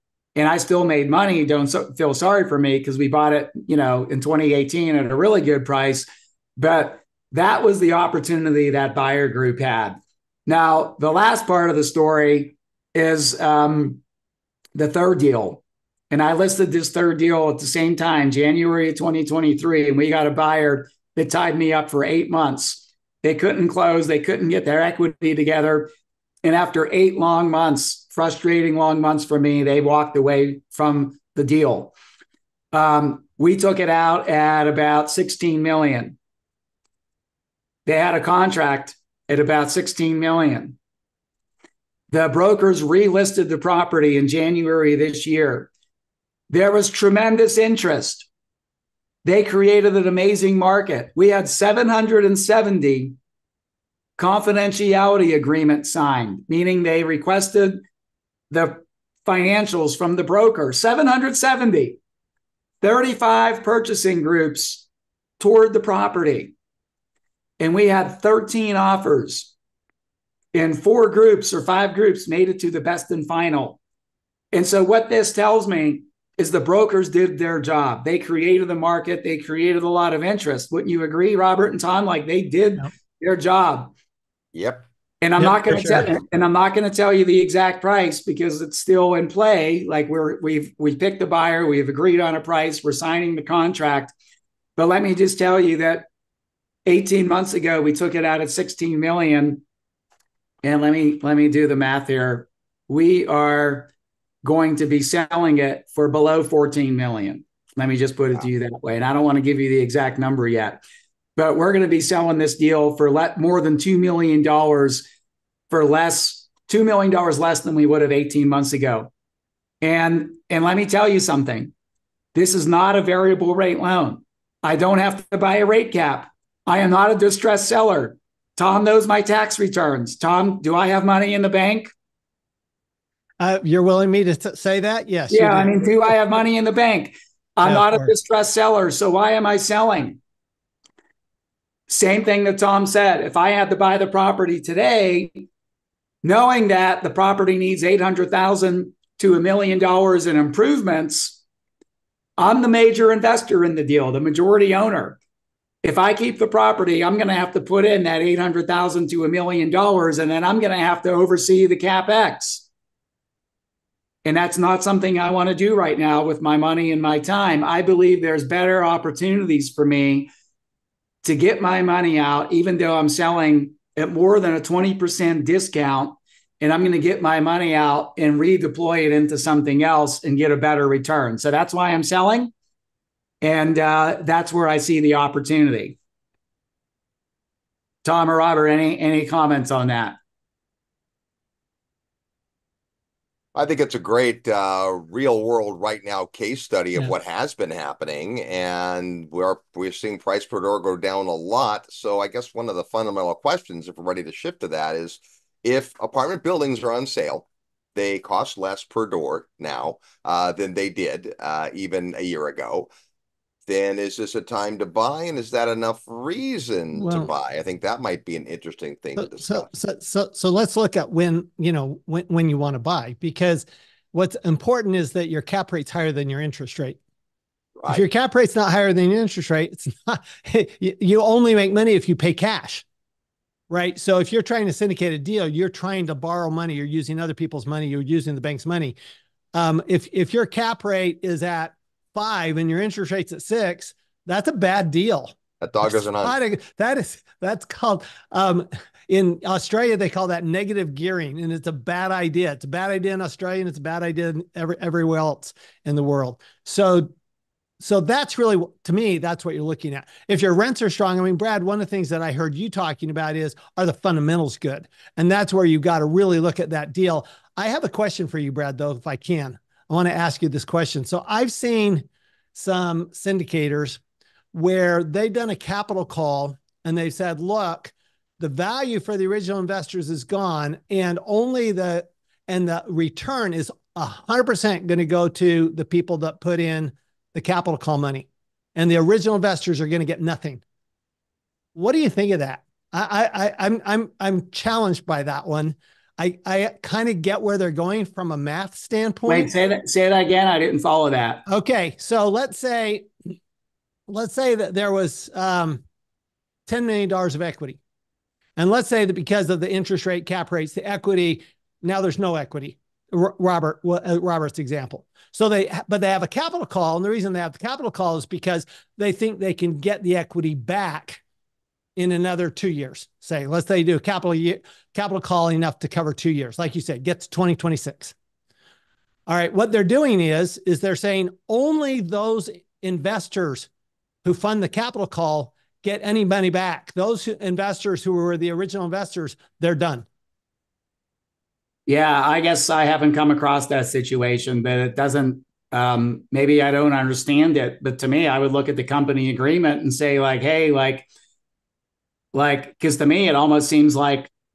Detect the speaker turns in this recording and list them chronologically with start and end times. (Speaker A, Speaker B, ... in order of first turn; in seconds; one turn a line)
Speaker A: 0.3-14.0
Speaker A: 14.7-25.9
Speaker A: 26.4-31.9
Speaker A: 32.7-36.2
Speaker A: 37.9-40.8
Speaker A: 42.1-45.7
Speaker A: 46.5-48.3
Speaker A: 49.2-53.1
Speaker A: 54.2-57.8
Speaker A: 58.5-62.0
Speaker A: 62.8-64.9
Speaker A: 65.4-66.5
Speaker A: 67.6-69.5
Speaker A: 70.5-73.8
Speaker A: 74.5-83.9
Speaker B: 84.5-84.8
Speaker A: 85.2-94.1
Speaker C: 85.4-86.1
Speaker A: 94.8-96.1
Speaker A: 96.8-99.6
Speaker A: 100.6-103.9
Speaker A: 104.4-110.8
Speaker A: 111.3-115.1
Speaker A: 115.7-119.1
Speaker A: 119.8-121.7
Speaker A: 122.3-131.9
Speaker C: 133.4-135.7
Speaker A: 135.3-140.2
Speaker C: 137.6-138.1
Speaker A: 141.9-145.4
Speaker A: 146.2-151.4
Speaker A: 152.4-155.2
Speaker A: 155.8-162.7
Speaker A: 164.2-170.3
Speaker A: 171.2-182.5
Speaker A: 183.4-186.0
Speaker A: 188.0-190.2
Speaker B: 193.5-212.9
Speaker B: 213.7-219.7
Speaker C: 216.9-217.3
Speaker C: 219.2-227.0
Speaker B: 227.8-228.0
Speaker C: 227.9-232.8
Speaker C: 233.7-239.0
Speaker C: 239.5-257.1
Speaker B: 245.6-246.3
Speaker C: 257.8-274.0
Speaker C: 274.5-290.6
Speaker C: 291.7-299.5
Speaker A: 299.2-301.4
Speaker C: 301.5-303.1
Speaker C: 304.1-305.8
Speaker C: 306.7-307.8
Speaker C: 308.6-321.2
Speaker C: 321.9-328.1
Speaker C: 329.3-333.7
Speaker C: 334.2-340.1
Speaker A: 341.9-351.1
Speaker A: 352.3-354.3